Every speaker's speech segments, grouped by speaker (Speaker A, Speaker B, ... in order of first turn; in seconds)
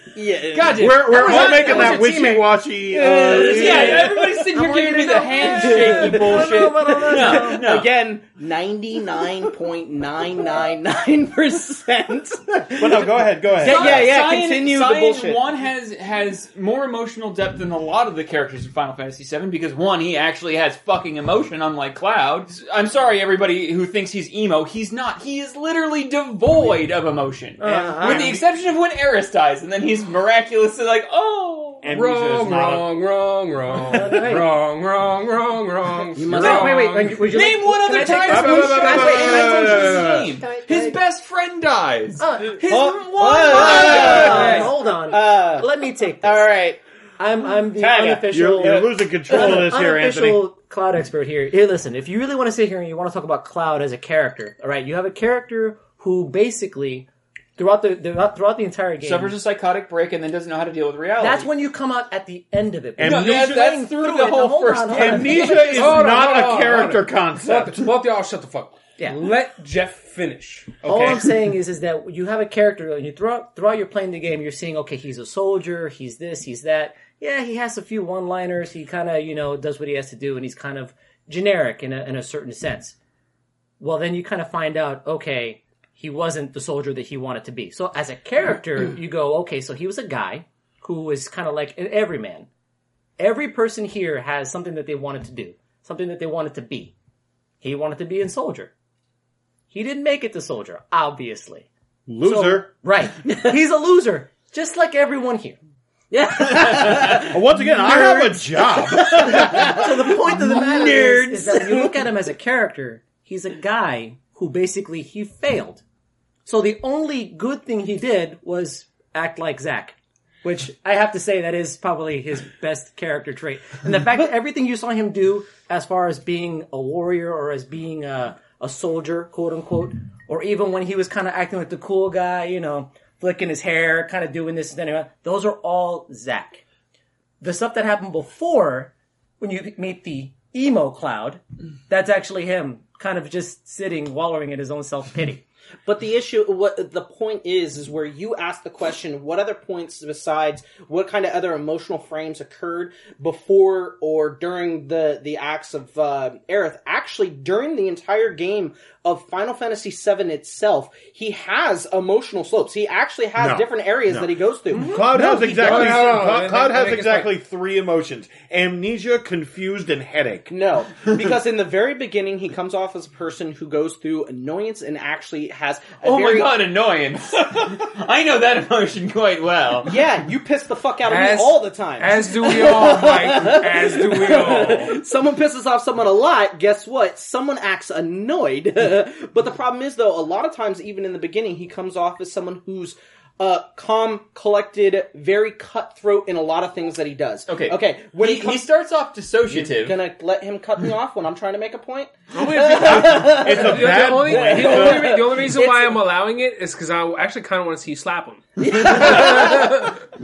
Speaker A: 0.1-1.8, 2.9-4.6, 5.2-15.4, 36.2-36.9, 42.7-45.7, 46.2-46.8, 106.1-111.9, 145.8-166.3, 170.5-176.6, 179.8-198.6, 199.5-206.0, 208.6-209.9
Speaker B: 0.5-2.1, 3.1-7.9, 13.6-32.6, 37.3-44.6, 59.0-61.5, 63.0-66.2, 176.0-180.0, 197.5-200.0
Speaker C: 0.7-4.1, 12.8-14.1, 27.6-28.4, 31.8-32.9, 38.3-40.3, 43.8-44.2, 47.7-50.4, 63.0-63.6, 64.9-67.8, 70.8-71.3, 102.1-102.7, 107.2-109.8, 163.4-170.5, 183.8-184.9, 202.7-205.2
Speaker D: 1.1-2.4, 4.5-7.6, 27.6-28.3, 33.9-34.5, 36.2-41.0, 42.2-42.7, 43.5-46.5, 47.2-59.3, 61.2-65.8, 70.8-83.0, 83.8-92.5, 93.2-96.9, 97.6-98.7, 99.7-101.7, 102.2-105.6, 107.9-108.3, 109.3-115.8, 116.5-136.6, 137.4-145.4
Speaker E: 31.9-37.3, 43.1-44.7, 65.5-70.8, 164.9-167.3, 181.1-184.9, 202.3-209.9